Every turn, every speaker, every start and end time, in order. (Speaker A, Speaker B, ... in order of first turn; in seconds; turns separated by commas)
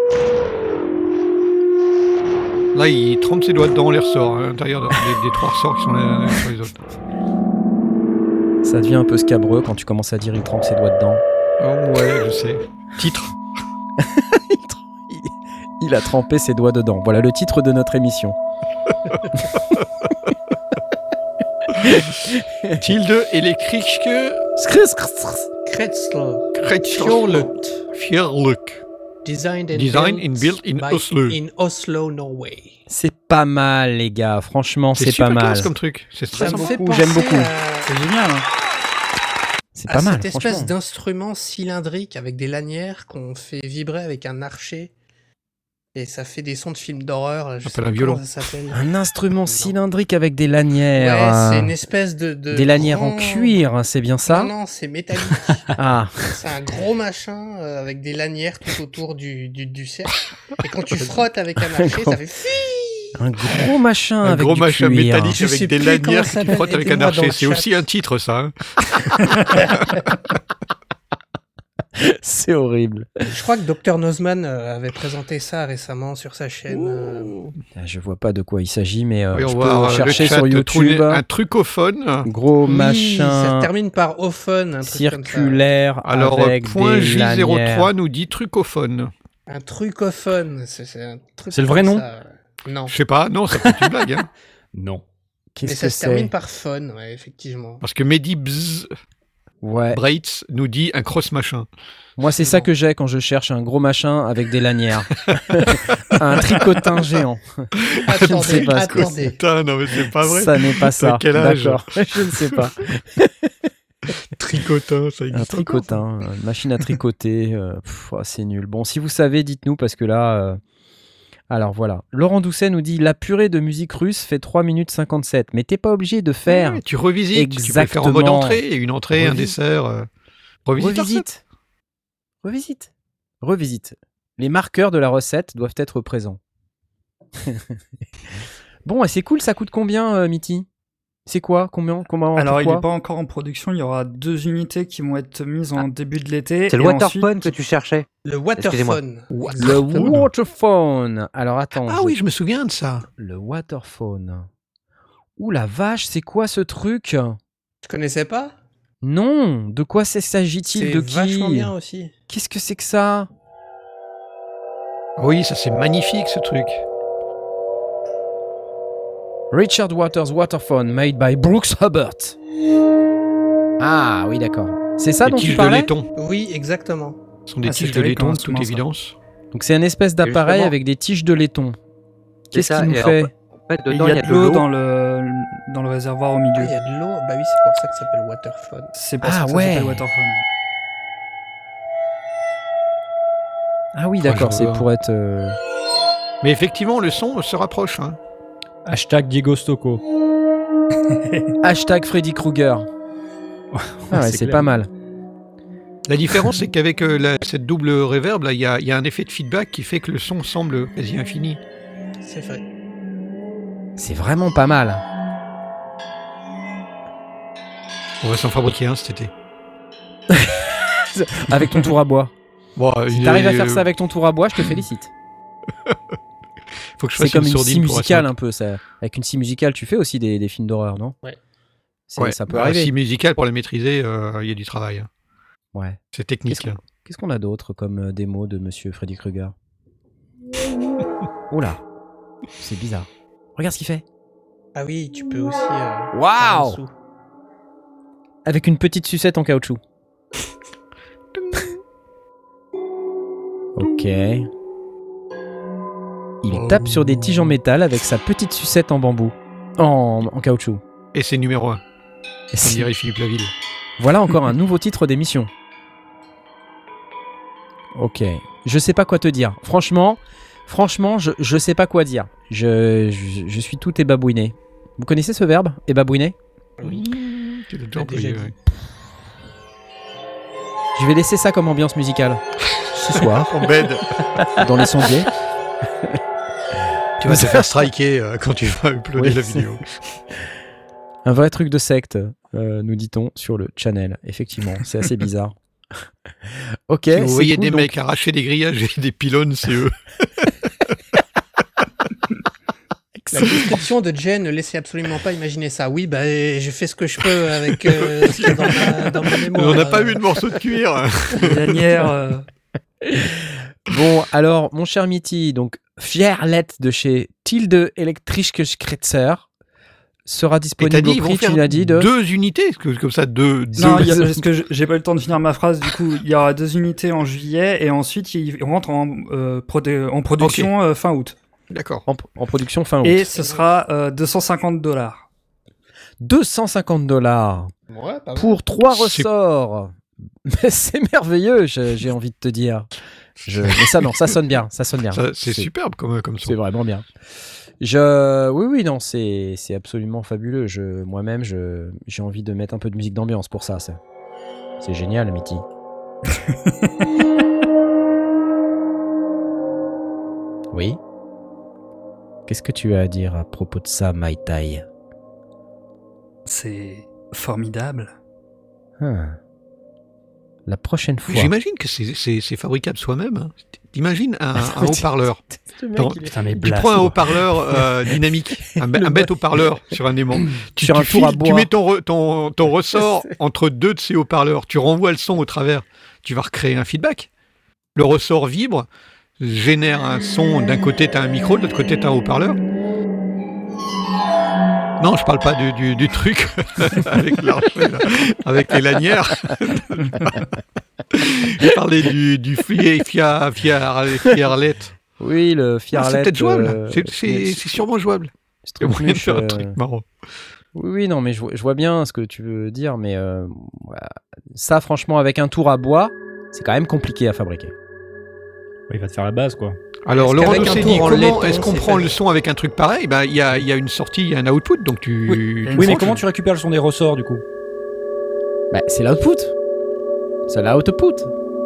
Speaker A: 2.7-6.8, Speaker B: 8.6-11.2, Speaker A: 11.6-13.3, Speaker B: 14.0-18.4, Speaker B: 21.8-22.8, Speaker A: 22.8-24.4, Speaker B: 24.6-25.5, Speaker C: 25.6-27.8, Speaker A: 26.6-28.8, Speaker C: 29.2-32.8, Speaker A: 29.7-31.4, Speaker B: 32.9-35.7, Speaker A: 35.0-36.8, Speaker B: 36.3-37.5, Speaker C: 36.3-37.9, Speaker D: 37.8-38.5, Speaker B: 39.7-40.7, Speaker C: 39.9-44.9, Speaker C: 45.9-48.8, Speaker A: 47.6-48.3, Speaker B: 48.7-51.7, Speaker C: 49.4-49.8, Speaker C: 51.0-53.6, Speaker B: 52.5-54.5, Speaker C: 54.2-63.1, Speaker B: 55.8-56.4, Speaker B: 61.7-62.2, Speaker B: 63.1-65.4, Speaker A: 64.2-70.0, Speaker C: 65.3-67.8, Speaker B: 72.0-73.3, Speaker C: 73.3-77.4, Speaker A: 76.7-77.5, Speaker B: 77.8-81.2, Speaker A: 79.3-82.3, Speaker B: 82.2-83.7, Speaker C: 82.7-85.6, Speaker B: 84.8-87.9, Speaker A: 86.0-89.1, Speaker C: 89.5-92.9, Speaker E: 91.5-92.0, Speaker A: 92.9-94.3, Speaker E: 93.5-93.9, Speaker E: 94.7-95.0, Speaker B: 95.6-96.3, Speaker C: 95.6-97.8, Speaker A: 97.8-98.9, Speaker B: 99.6-100.0, Speaker A: 99.9-101.7, Speaker B: 102.2-107.7, Speaker A: 105.3-106.8, Speaker A: 107.8-112.7, Speaker C: 108.0-109.4, Speaker B: 108.2-109.2, Speaker B: 110.2-113.5, Speaker A: 114.3-116.0, Speaker B: 115.3-120.6, Speaker B: 121.5-126.8, Speaker A: 126.5-130.1, Speaker B: 127.3-129.6, Speaker A: 130.6-131.2, Speaker B: 130.8-131.4, Speaker B: 132.4-132.9, Speaker B: 133.4-136.4, Speaker B: 137.4-137.7, Speaker B: 138.9-140.7, Speaker B: 141.2-142.8, Speaker D: 142.4-147.5, Speaker F: 146.7-149.0, Speaker C: 148.2-150.1, Speaker A: 149.3-150.3, Speaker B: 149.6-152.1, Speaker A: 151.9-153.1, Speaker B: 153.2-154.5, Speaker B: 155.4-157.4, Speaker C: 157.8-158.6, Speaker B: 159.0-161.7, Speaker C: 160.7-162.1, Speaker B: 162.3-163.3, Speaker A: 165.2-166.8, Speaker B: 169.5-172.4, Speaker B: 173.8-175.9, Speaker A: 175.2-176.1, Speaker C: 176.2-177.2, Speaker A: 177.5-179.2, Speaker D: 177.6-178.8, Speaker B: 179.5-181.8, Speaker F: 180.2-180.7, Speaker F: 182.5-184.7, Speaker B: 182.5-183.3, Speaker D: 183.9-186.7, Speaker C: 186.6-188.9, Speaker D: 188.9-190.4, Speaker B: 189.2-190.1, Speaker B: 193.9-195.6, Speaker A: 194.2-194.9, Speaker A: 196.4-198.2, Speaker E: 198.9-200.0, Speaker D: 201.1-201.5, Speaker B: 201.6-202.9, Speaker E: 203.7-204.7, Speaker B: 204.1-204.9, Speaker A: 206.1-211.6, Speaker C: 212.2-212.6, Speaker B: 214.0-215.0, Speaker A: 218.2-219.3, Speaker B: 220.3-222.3, Speaker A: 222.8-223.9, Speaker B: 223.1-225.1, Speaker A: 227.0-228.3, Speaker B: 227.2-231.2, Speaker B: 232.1-232.9, Speaker A: 232.2-235.1, Speaker B: 235.7-239.5, Speaker A: 236.1-236.8, Speaker B: 241.5-241.8, Speaker B: 242.6-244.0, Speaker C: 244.7-246.9, Speaker B: 246.1-246.8, Speaker B: 248.4-249.8, Speaker A: 251.3-251.8, Speaker B: 253.8-254.5, Speaker B: 256.4-260.8, Speaker A: 256.5-257.6, Speaker A: 261.1-261.8, Speaker B: 262.5-262.9, Speaker A: 262.6-263.5, Speaker B: 264.0-265.5, Speaker B: 267.9-276.4, Speaker C: 276.8-277.1, Speaker A: 276.8-278.5, Speaker C: 277.9-278.5, Speaker B: 280.9-282.4, Speaker B: 282.9-283.5, Speaker A: 283.1-284.2, Speaker B: 284.6-285.3, Speaker A: 287.2-290.0, Speaker B: 287.2-287.7, Speaker B: 289.1-289.7, Speaker B: 291.2-295.5, Speaker B: 296.5-297.9, Speaker A: 297.1-300.5, Speaker B: 303.2-303.6, Speaker C: 303.3-310.2, Speaker A: 307.9-312.1, Speaker D: 311.4-312.4, Speaker B: 313.0-319.5, Speaker B: 320.2-322.1, Speaker A: 320.8-324.2, Speaker B: 323.8-324.4, Speaker D: 323.8-331.4, Speaker A: 330.4-330.7, Speaker A: 331.7-332.1, Speaker B: 332.1-333.3, Speaker D: 333.0-335.3, Speaker C: 333.4-333.7, Speaker B: 336.2-337.7, Speaker C: 337.9-338.6, Speaker B: 338.4-342.9, Speaker A: 338.9-339.2, Speaker B: 343.4-345.7, Speaker A: 343.6-344.1, Speaker A: 345.1-346.6, Speaker B: 346.4-347.1, Speaker B: 347.8-354.0, Speaker B: 354.8-355.6, Speaker B: 360.7-361.0, Speaker B: 362.5-364.9, Speaker D: 366.4-368.1, Speaker B: 369.0-369.4, Speaker B: 370.7-371.5, Speaker A: 371.3-375.4, Speaker B: 374.6-376.4, Speaker A: 375.9-387.3, Speaker E: 376.2-377.4, Speaker B: 378.8-379.4, Speaker B: 380.8-381.7, Speaker A: 387.9-388.9, Speaker A: 389.4-392.6, Speaker A: 395.0-400.6, Speaker A: 401.1-404.9, Speaker B: 405.2-407.8, Speaker A: 405.9-410.1, Speaker B: 408.6-409.8, Speaker B: 410.7-417.7, Speaker E: 418.9-419.8, Speaker A: 420.1-426.2, Speaker C: 420.1-422.1, Speaker E: 425.3-427.4, Speaker D: 425.6-426.1, Speaker B: 428.7-429.5, Speaker B: 430.5-431.3